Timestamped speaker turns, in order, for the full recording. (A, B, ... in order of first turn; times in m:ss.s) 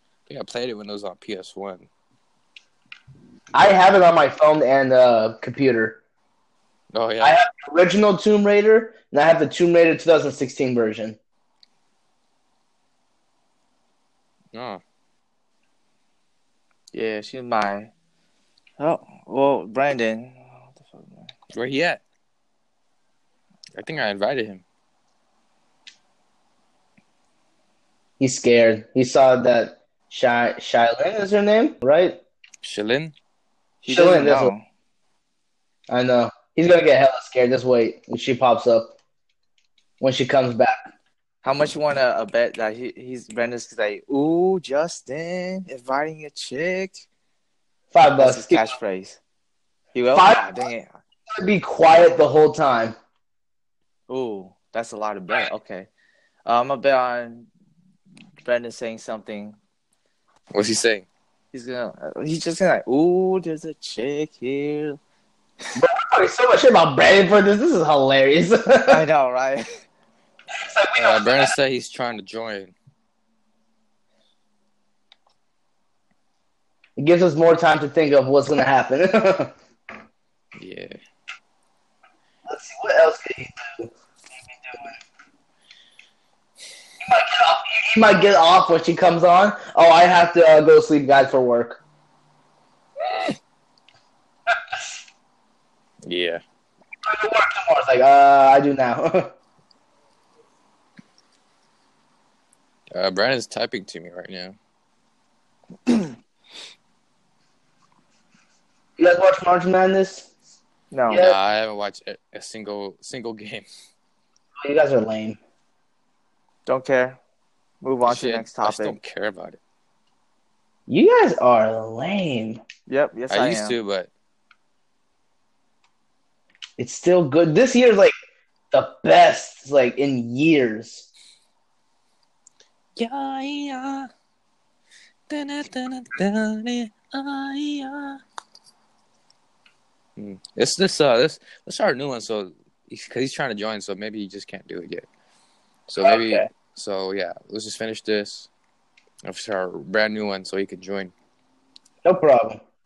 0:00.3-0:01.9 A
0:03.5-0:06.0 B
0:06.9-0:07.4 A
0:07.2-0:11.2 B
0:14.5-0:14.8 A
0:16.9-0:17.9 C
0:18.8-0:21.3 C
0:21.5-0:22.0 A
0:23.8-0:24.6 A
0:28.2-0:32.2 B
0:32.6-0:33.1 A
0:33.8-0:34.6 C
0:33.9-0:34.5 B
0:35.9-0:38.9 B
0:40.0-0:40.9 B
0:41.4-0:47.0 C
0:47.9-0:48.7 B
0:48.2-0:49.2 C
0:49.9-0:50.9 C
0:50.1-0:50.7 B
0:51.3-0:53.0 B
0:54.1-0:55.9 C
0:56.4-0:57.5 C
0:58.4-0:59.6 C
1:00.5-1:01.0 A
1:01.5-1:05.0 C
1:05.7-1:09.0 B
1:08.8-1:09.7 C
1:10.5-1:11.5 B
1:11.0-1:12.7 A
1:17.0-1:19.5 B
1:20.6-1:21.0 A
1:22.5-1:23.9 B
1:24.5-1:25.0 B
1:27.0-1:31.8 B
1:36.0-1:36.4 A
1:37.0-1:39.3 B
1:42.9-1:44.5 A
1:49.0-1:50.3 B
1:50.9-1:51.2 C
1:51.1-1:53.6 A
1:51.1-1:51.4 B
1:54.6-1:55.4 B
1:56.6-1:57.2 C
1:57.8-1:59.0 C
1:58.0-1:59.6 A
2:00.9-2:02.6 B
2:02.9-2:03.8 C
2:03.3-2:04.1 A
2:06.8-2:08.1 B
2:08.7-2:11.1 B
2:13.0-2:14.1 A
2:15.3-2:18.2 A
2:20.2-2:25.0 A
2:25.9-2:28.5 A
2:26.0-2:26.5 B
2:29.2-2:31.1 A
2:32.0-2:32.6 B